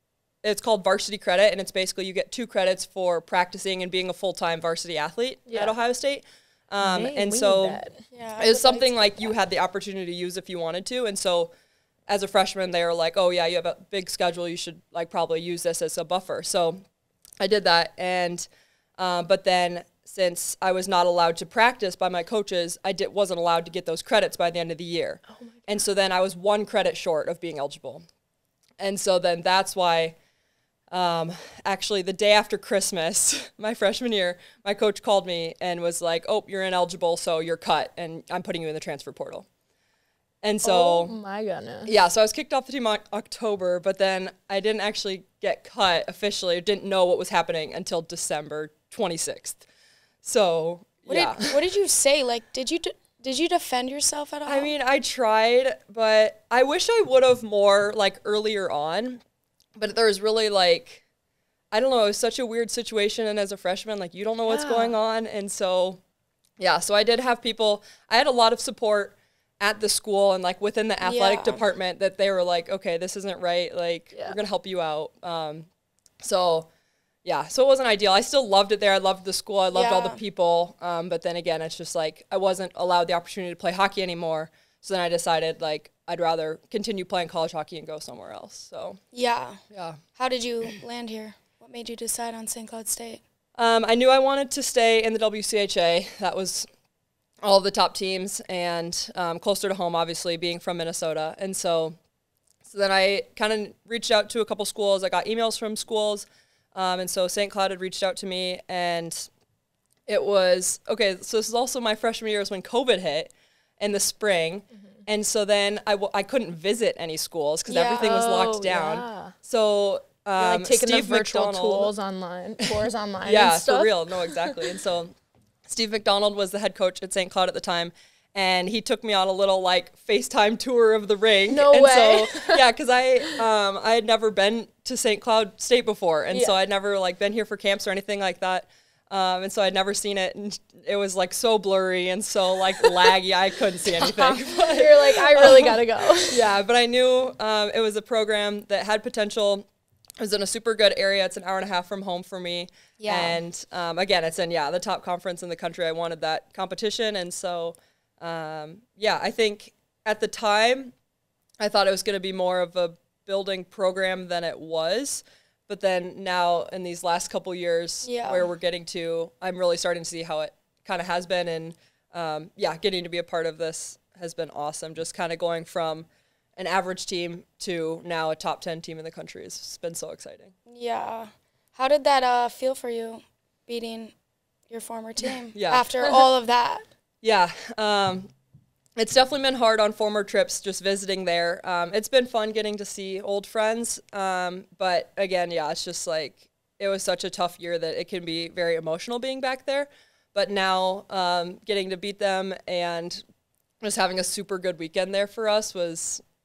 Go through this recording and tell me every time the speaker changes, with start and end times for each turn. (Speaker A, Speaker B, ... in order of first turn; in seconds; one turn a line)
Speaker A: 0.4-7.8
Speaker B: 5.5-5.7
Speaker B: 6.8-8.0
Speaker C: 8.1-9.3
Speaker A: 8.4-11.5
Speaker A: 12.1-16.8
Speaker A: 17.4-28.0
Speaker A: 28.8-30.2
Speaker A: 30.9-39.5
Speaker A: 40.4-41.1
Speaker B: 40.6-41.9
Speaker A: 41.8-49.6
Speaker A: 50.2-51.6
Speaker C: 51.1-54.7
Speaker A: 54.5-59.2
Speaker A: 59.8-61.0
Speaker A: 61.7-66.0
Speaker B: 64.5-64.9
Speaker A: 66.6-75.7
Speaker C: 71.0-71.6
Speaker A: 76.2-76.7
Speaker A: 77.2-89.0
Speaker C: 79.7-80.2
Speaker C: 89.1-89.6
Speaker A: 89.7-90.0
Speaker C: 90.2-93.2
Speaker A: 93.6-96.7
Speaker A: 97.4-102.0
Speaker A: 102.6-109.3
Speaker A: 110.1-121.9
Speaker C: 117.7-118.2
Speaker B: 118.0-119.3
Speaker B: 120.4-124.7
Speaker A: 122.6-125.2
Speaker A: 125.7-145.8
Speaker B: 131.5-132.6
Speaker B: 144.2-146.4
Speaker A: 146.3-149.7
Speaker A: 150.2-160.9
Speaker C: 153.0-153.4
Speaker A: 161.6-180.5
Speaker C: 168.1-168.5
Speaker C: 180.7-184.1
Speaker C: 184.7-186.8
Speaker A: 185.5-185.9
Speaker A: 187.2-188.3
Speaker A: 188.9-203.2
Speaker A: 203.8-206.2